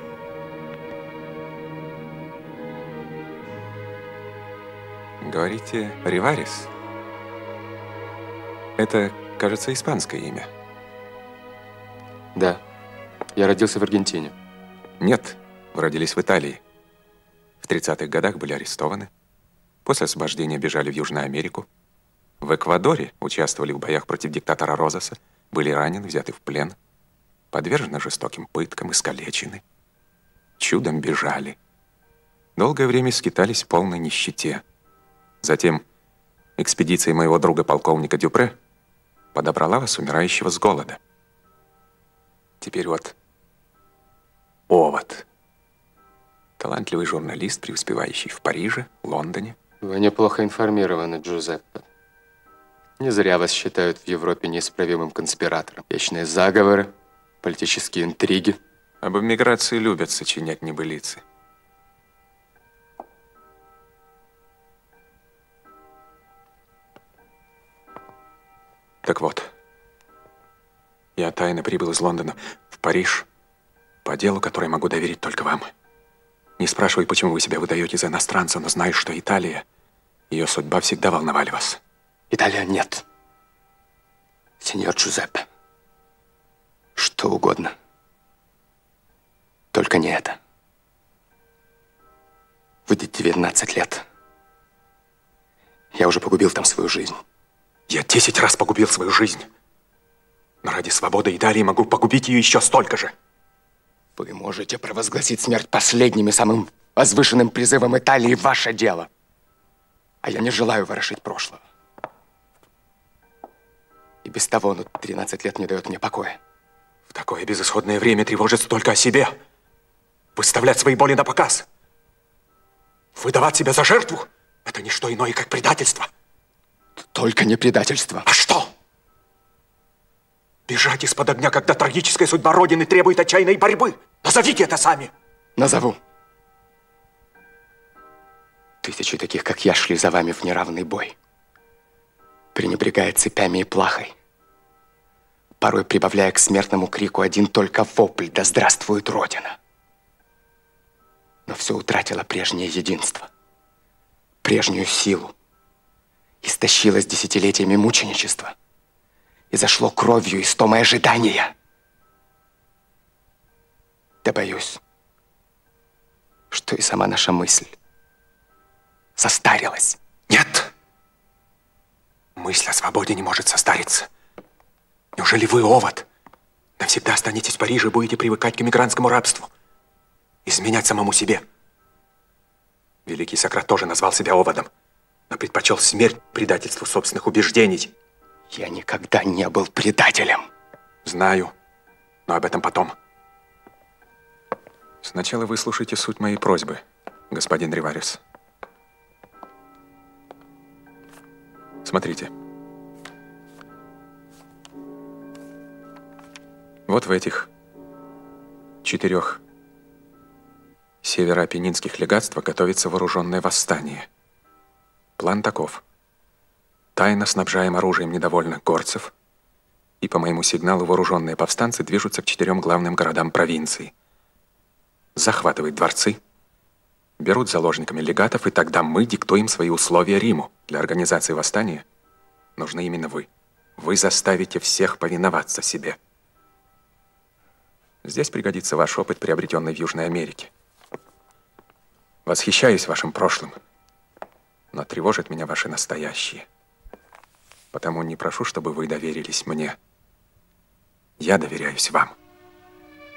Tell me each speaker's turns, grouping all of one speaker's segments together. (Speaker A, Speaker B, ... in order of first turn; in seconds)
Speaker A: 5.2-6.7, 8.8-10.5, 15.0-16.6, 17.6-19.1, 19.9-21.7, 22.4-26.8, 27.5-29.6, 30.6-31.6, 32.6-34.6, 35.4-35.8, 36.6-38.6, 39.3-41.0, 42.6-43.1, 44.7-45.2, 46.6-49.6, 59.0-61.2, 69.0-69.5, 71.2-73.3, 74.0-75.7, 76.6-79.7, 80.3-81.8, 97.9-99.5, 100.6-103.1, 117.1-119.4, 120.4-121.7, 123.2-126.1, 128.3-128.7, 130.7-135.1, 170.3-170.7, 172.4-174.1, 175.2-176.1, 176.8-179.5, 180.5-181.4, 183.1-184.7, 185.3-187.9, 191.1-191.5, 192.3-192.9, 195.0-198.2, 201.8-202.3, 206.9-207.5, 208.8-209.4, 211.0-214.1, 215.2-215.8, 217.0-219.1, 220.0-223.9, 225.2-226.2, 227.2-231.8, 232.6-236.0, 238.0-240.5, 242.3-243.6, 244.7-246.5, 247.7-249.8, 251.2-252.1
Speaker B: 12.3-12.6, 13.4-14.3, 49.8-51.9, 53.0-58.6, 82.3-83.0, 84.6-85.5, 87.0-87.7, 89.7-90.4, 92.9-94.0, 95.9-97.2, 104.2-109.1, 110.2-111.6, 114.2-116.4, 127.0-128.3, 135.6-136.0, 138.8-141.2, 142.6-144.2, 145.6-149.6, 151.5-153.3, 154.4-155.3, 156.4-158.5, 159.5-161.6, 164.2-164.8, 166.5-167.7, 169.2-170.0, 188.5-190.5